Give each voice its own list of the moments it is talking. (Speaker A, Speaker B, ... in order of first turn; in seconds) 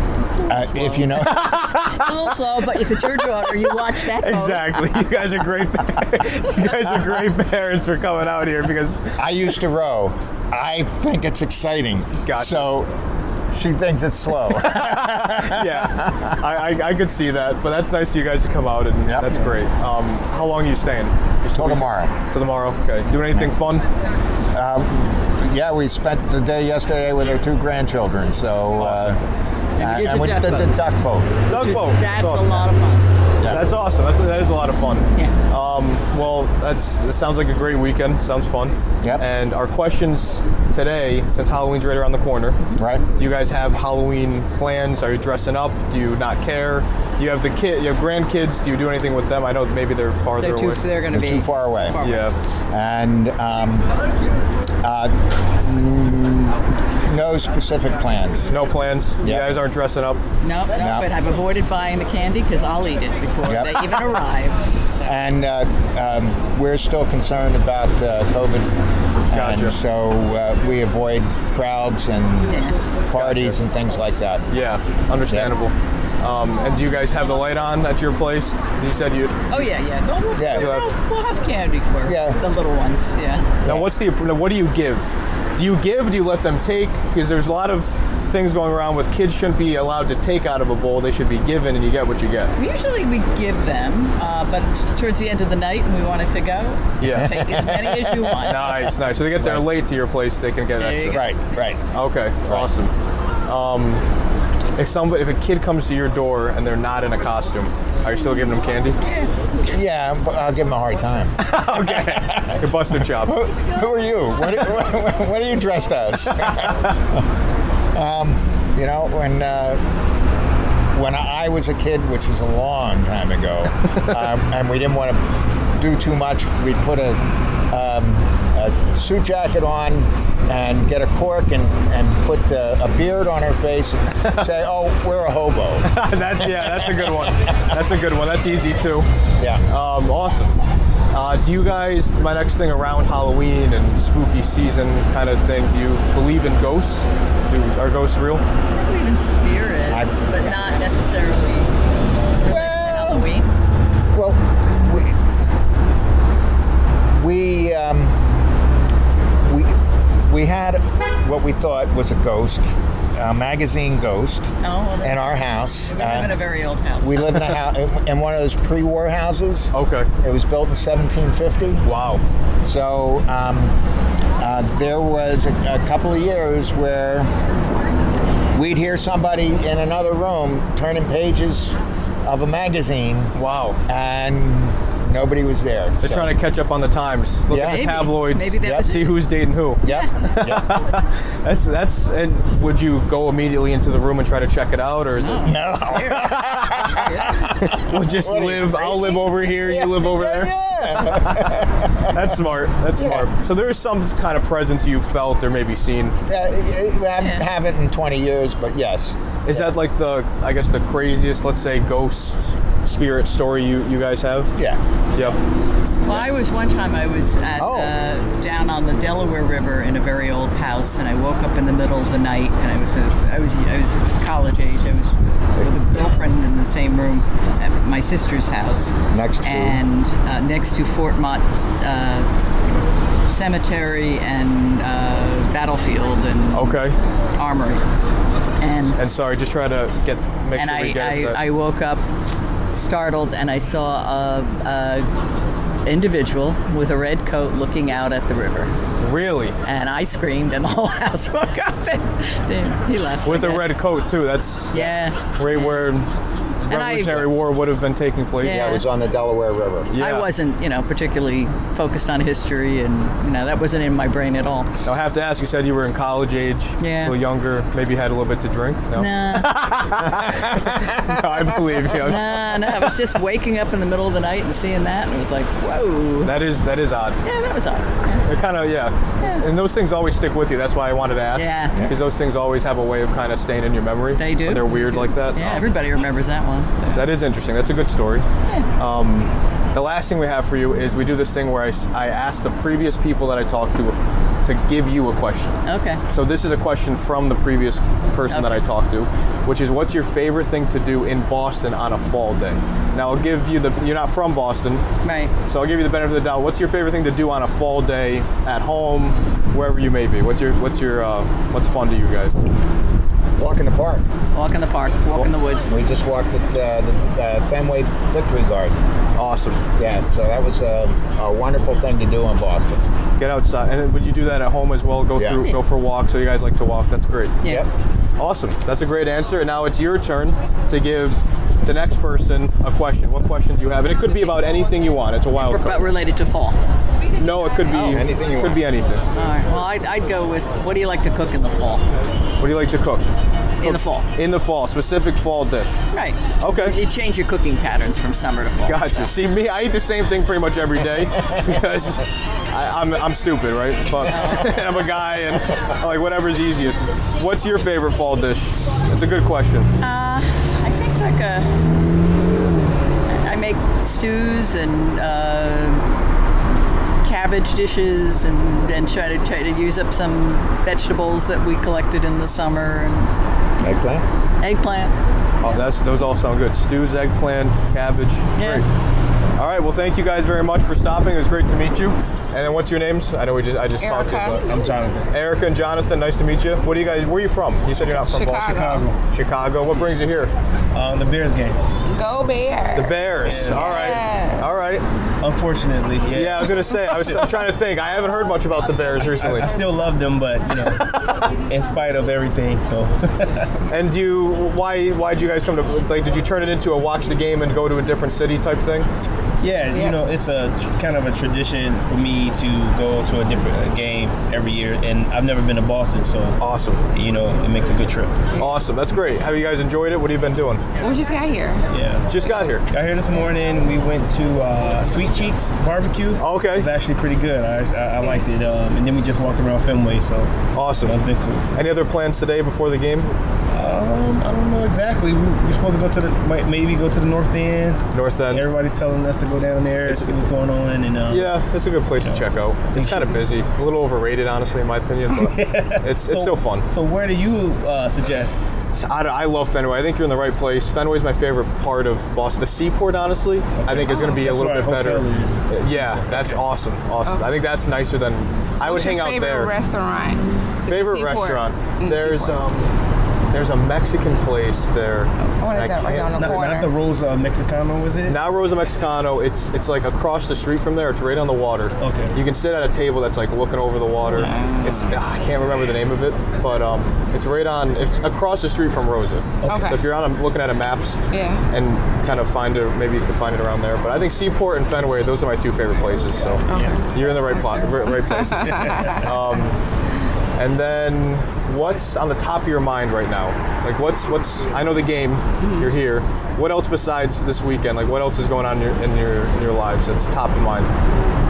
Speaker A: 0.3-1.1, 1.8-4.8, 29.8-33.1, 50.4-52.3, 60.4-65.2, 72.5-72.8, 79.5-83.5, 92.6-98.9, 100.8-101.4, 148.7-151.7, 152.4-153.5, 164.6-167.5, 187.6-189.3, 189.8-190.1, 195.2-197.6, 207.2-207.5, 216.1-232.3, 233.3-236.8, 237.4-237.8, 238.6-239.0, 240.6-242.0, 242.7-245.1, 245.8-248.7, 249.6-253.8, 254.7-255.9, 256.7-257.3, 258.4-258.9, 260.0-264.7, 266.8-267.2, 268.9-270.0, 271.9-276.3, 277.2-278.3, 281.4-281.8, 284.2-287.1, 295.6-296.0, 298.3-298.6, 305.0-305.3, 314.3-315.8, 335.4-336.6, 339.1-341.8, 343.6-344.1, 345.9-349.1, 354.1-354.8, 359.8-361.5, 363.1-365.9, 367.0-373.1, 374.4-374.9, 378.4-378.6
Speaker B: 0.5-1.6, 9.2-12.9, 13.5-16.4, 19.1-19.4, 21.5-22.1, 23.2-23.5, 24.5-29.2, 29.8-31.4, 33.4-33.7, 42.8-43.1, 51.1-52.0, 52.7-53.9, 54.8-58.5, 59.2-59.6, 60.8-61.1, 63.5-64.2, 65.0-68.7, 69.3-74.5, 80.3-80.8, 82.0-82.4, 83.6-83.9, 97.1-98.5, 99.2-99.7, 101.1-101.8, 109.6-117.2, 117.9-119.8, 120.9-137.0, 139.4-139.6, 149.9-150.7, 152.4-153.3, 154.1-155.2, 157.2-158.2, 159.4-166.4, 167.0-171.8, 172.6-173.8, 174.4-177.3, 178.5-183.3, 183.9-186.4, 187.5-187.9, 188.6-189.0, 189.8-190.8, 195.4-202.2, 203.0-203.3, 206.3-209.8, 214.6-215.3, 217.6-217.9, 229.1-229.8, 258.4-259.9, 313.4-314.1, 315.6-318.8, 319.8-322.8, 325.2-325.5, 337.7-338.6, 373.6-374.0
Speaker C: 1.2-2.1, 4.2-9.2, 12.2-12.7, 14.6-23.8, 28.8-29.2, 31.5-32.7, 33.5-42.6, 43.2-50.8, 52.0-52.3, 58.5-60.2, 69.3-69.8, 73.1-73.6, 74.5-79.3, 80.5-80.9, 83.7-92.5, 97.0-97.5, 98.4-101.3, 101.9-102.9, 103.5-104.0, 104.8-109.0, 111.4-113.5, 135.9-139.1, 139.7-140.6, 141.1-148.4, 169.7-170.1, 171.8-172.2, 183.3-183.8, 186.0-197.0, 197.6-206.2, 209.4-214.5, 236.5-237.0, 239.0-241.4, 249.0-249.6, 253.2-256.1, 256.7-258.8, 259.9-260.3, 264.9-272.8, 276.2-277.2, 278.3-285.7, 286.9-288.3, 288.8-295.6, 296.1-304.8, 305.5-312.4, 319.2-319.6, 323.2-327.4, 328.2-335.9, 337.2-339.0, 342.4-343.0, 343.6-345.8, 346.4-346.8, 348.7-359.7, 375.4-378.7, 379.4-384.5, 385.1-390.3, 392.8-394.8, 396.1-399.5, 403.7-408.9, 416.4-416.8, 418.4-420.6, 422.1-422.7, 426.2-426.7, 430.5-431.0, 431.5-433.1, 437.9-438.5, 441.1-446.7, 448.7-459.5, 460.7-462.7, 463.3-466.3, 468.1-489.6, 490.4-500.7
Speaker D: 383.8-384.6, 387.9-388.9, 391.9-394.5, 409.7-410.0, 420.8-421.6, 457.0-457.3, 458.6-462.4, 465.2-466.7, 474.1-474.8, 479.5-479.8, 481.1-481.4, 486.5-489.2, 495.4-495.7
Speaker E: 384.4-385.1, 388.5-389.0, 390.7-391.6, 393.2-394.0, 395.2-397.3, 399.2-403.5, 409.4-416.4, 416.9-418.3, 421.7-422.1, 422.7-431.5, 433.5-441.4, 442.0-443.2, 445.2-448.4, 453.5-456.4, 466.1-468.2, 471.8-472.2, 479.4-479.7, 488.5-488.9